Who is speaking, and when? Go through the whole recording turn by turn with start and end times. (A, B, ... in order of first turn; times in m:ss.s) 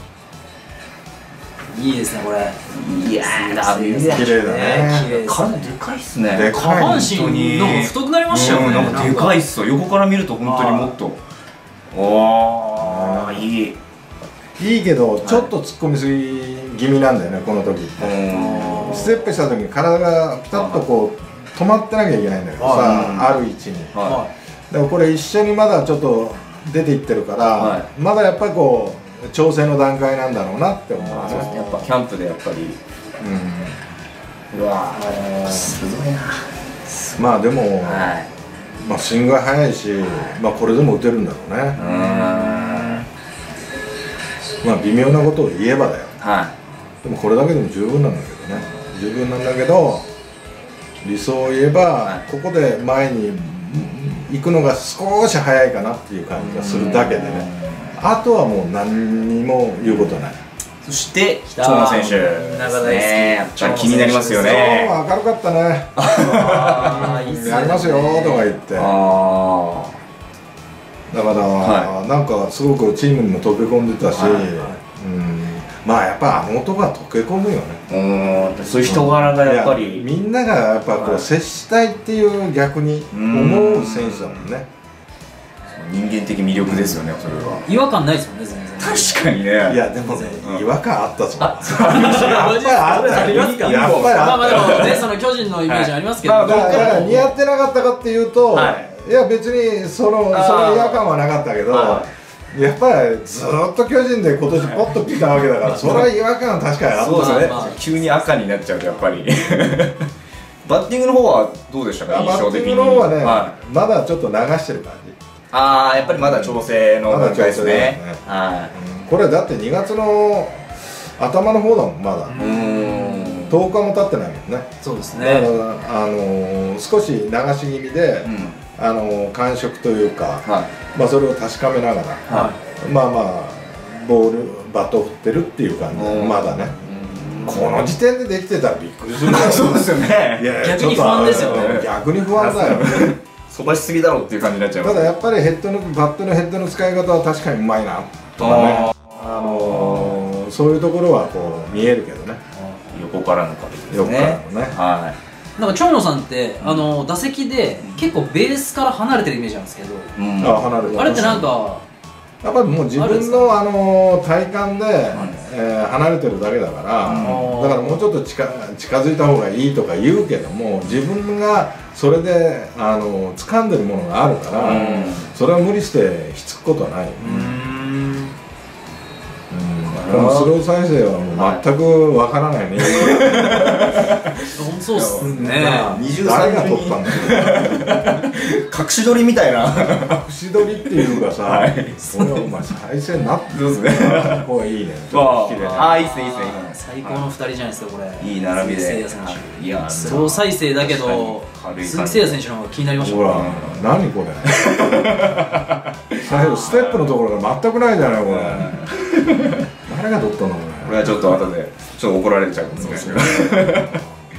0:01.7-0:05.8 A
0:02.7-0:11.2 B
0:04.1-0:05.1 C
0:06.3-0:07.2 C
0:06.5-0:09.4 A
0:08.6-0:09.1 C
0:10.4-0:11.0 A
0:11.9-0:13.8 B
0:12.8-0:13.5 C
0:14.6-0:18.2 C
0:15.2-0:15.5 B
0:18.0-0:19.1 B
0:18.3-0:19.1 A
0:18.8-0:24.0 C
0:20.5-0:20.8 B
0:22.6-0:23.0 A
0:22.8-0:23.4 B
0:23.9-0:24.2 B
0:24.0-0:24.3 A
0:24.7-0:31.9 C
0:27.6-0:27.9 B
0:31.0-0:32.8 B
0:33.2-0:33.8 C
0:34.5-0:37.2 B
0:37.2-0:38.1 C
0:37.8-0:38.3 B
0:38.8-0:41.8 C
0:41.8-0:43.0 B
0:41.8-0:43.0 A
0:44.6-0:46.1 C
0:46.2-0:46.5 B
0:47.0-0:50.1 C
0:51.0-1:00.4 C
0:56.4-0:58.0 B
0:59.8-1:00.2 B
1:00.8-1:05.0 B
1:01.5-1:04.8 A
1:04.3-1:08.9 C
1:06.0-1:07.3 B
1:06.2-1:08.6 A
1:08.7-1:10.0 B
1:11.1-1:17.8 C
1:11.6-1:11.9 B
1:14.1-1:14.5 B
1:14.2-1:14.8 A
1:17.9-1:20.1 B
1:18.8-1:24.7 C
1:20.9-1:21.3 B
1:23.1-1:24.5 B
1:25.7-1:27.7 B
1:26.7-1:27.5 C
1:27.5-1:29.3 A
1:28.8-1:29.8 B
1:29.6-1:35.0 C
1:30.0-1:30.4 A
1:31.4-1:35.1 B
1:31.7-1:37.3 A
1:35.7-1:37.3 B
1:36.4-1:47.8 C
1:38.5-1:38.9 B
1:40.3-1:41.1 B
1:41.7-1:42.1 B
1:44.6-1:46.1 B
1:47.0-1:50.1 B
1:47.0-1:48.3 A
1:50.6-1:53.6 B
1:52.1-1:55.2 C
1:55.5-1:58.7 B
1:56.1-2:02.4 C
2:02.3-2:03.5 A
2:02.4-2:03.6 B
2:03.5-2:12.2 C
2:04.8-2:05.5 A
2:08.2-2:08.6 B
2:10.4-2:10.7 B
2:12.3-2:12.6 A
2:12.8-2:16.8 C
2:15.9-2:17.7 B
2:17.4-2:23.2 C
2:19.2-2:20.5 B
2:20.6-2:21.8 A
2:21.3-2:25.3 B
2:24.8-2:32.4 C
2:28.4-2:30.2 B
2:32.6-2:33.0 A
2:32.9-2:35.2 B
2:33.9-2:34.8 C
2:35.6-2:40.1 A
2:36.6-2:36.9 B
2:37.8-2:38.1 B
2:40.2-2:41.5 B
2:40.4-2:41.5 C
2:40.9-2:41.8 A
2:42.4-2:57.3 C
2:43.0-2:43.5 A
2:45.1-2:45.4 B
2:47.0-2:47.5 B
2:47.2-2:48.1 A
2:54.5-2:55.3 B
2:57.2-2:58.4 A
2:57.3-2:57.6 B
2:59.5-3:04.1 C
2:59.9-3:00.6 B
3:01.3-3:01.6 B
3:02.8-3:12.3 B
3:04.5-3:06.0 A
3:05.3-3:08.1 C
3:10.1-3:16.0 C
3:13.5-3:14.5 B
3:15.1-3:17.2 B
3:15.7-3:23.6 A
3:18.2-3:22.4 B
3:23.0-3:25.4 C
3:23.3-3:23.9 B
3:24.5-3:26.2 B
3:26.2-3:28.9 C
3:26.2-3:27.1 A
3:28.2-3:29.6 B
3:29.9-3:31.4 C
3:30.8-3:34.0 B
3:32.8-3:33.5 A
3:32.8-3:34.2 C